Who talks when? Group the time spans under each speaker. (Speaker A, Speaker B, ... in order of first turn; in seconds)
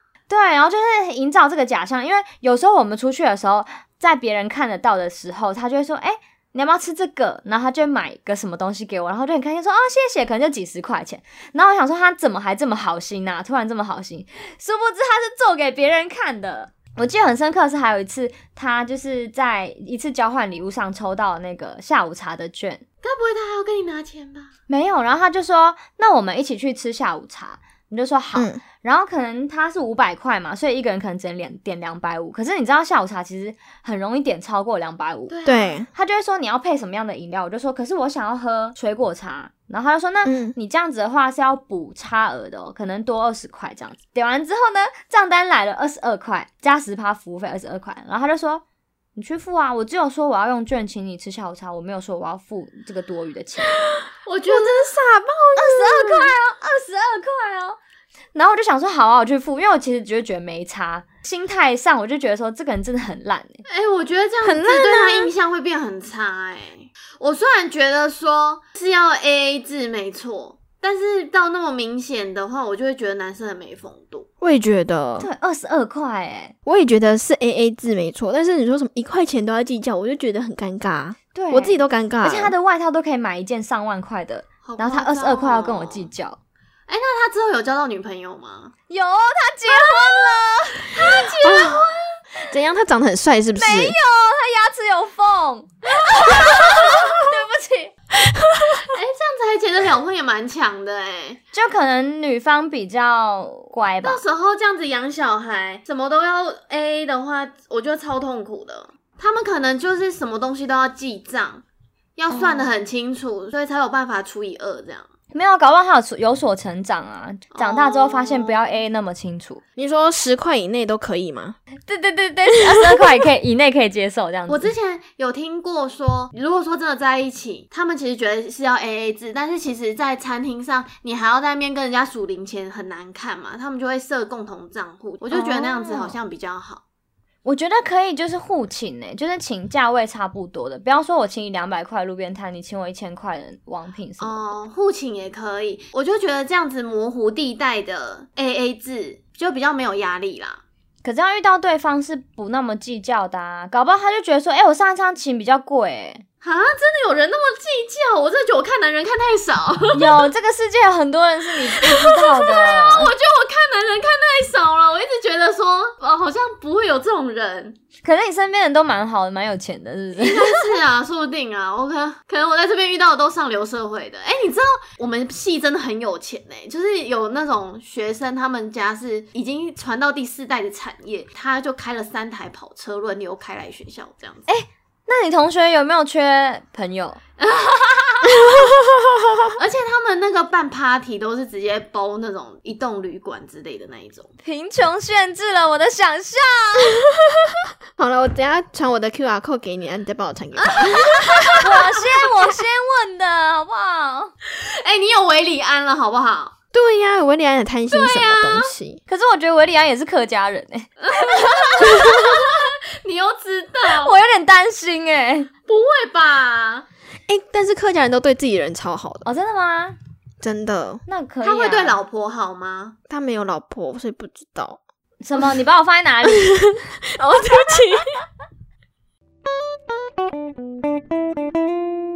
Speaker A: 0.3-22.8, 24.7-35.4, 35.9-48.6, 49.1-53.8, 55.5-57.8, 58.3-63.6, 75.2-76.5, 81.3-86.4, 88.9-91.0, 93.5-97.9, 101.5-104.2, 112.3-112.7, 115.3-119.6, 121.8-124.7, 135.3-136.2, 137.4-144.4, 151.0-156.2, 159.9-163.1, 168.0-170.6, 184.5-187.2, 194.4-197.0, 201.5-204.3, 209.1-212.4, 213.9-215.5, 219.2-219.9, 221.1-222.0, 225.2-226.6
Speaker B: 23.0-24.5, 35.3-35.8, 54.2-55.0, 63.7-74.3, 84.6-86.1, 86.9-88.7, 90.9-92.2, 98.8-101.4, 104.0-111.6, 112.2-115.1, 117.5-118.7, 124.5-136.8, 144.2-150.6, 156.4-160.3, 161.8-167.8, 170.2-184.5, 187.4-188.6, 189.6-194.3, 200.7-201.6, 204.5-206.5, 207.9-208.7, 211.0-214.1, 215.7-216.8, 221.4-222.9
Speaker C: 28.3-28.6, 35.4-35.9, 40.2-40.5, 54.5-56.3, 64.4-65.3, 74.4-75.3, 76.7-82.5, 91.4-91.9, 92.5-94.0, 98.3-98.8, 119.8-121.6, 188.4-189.5, 198.0-201.6, 206.7-209.0, 217.3-219.2, 220.4-221.0, 223.1-224.8, 226.3-228.1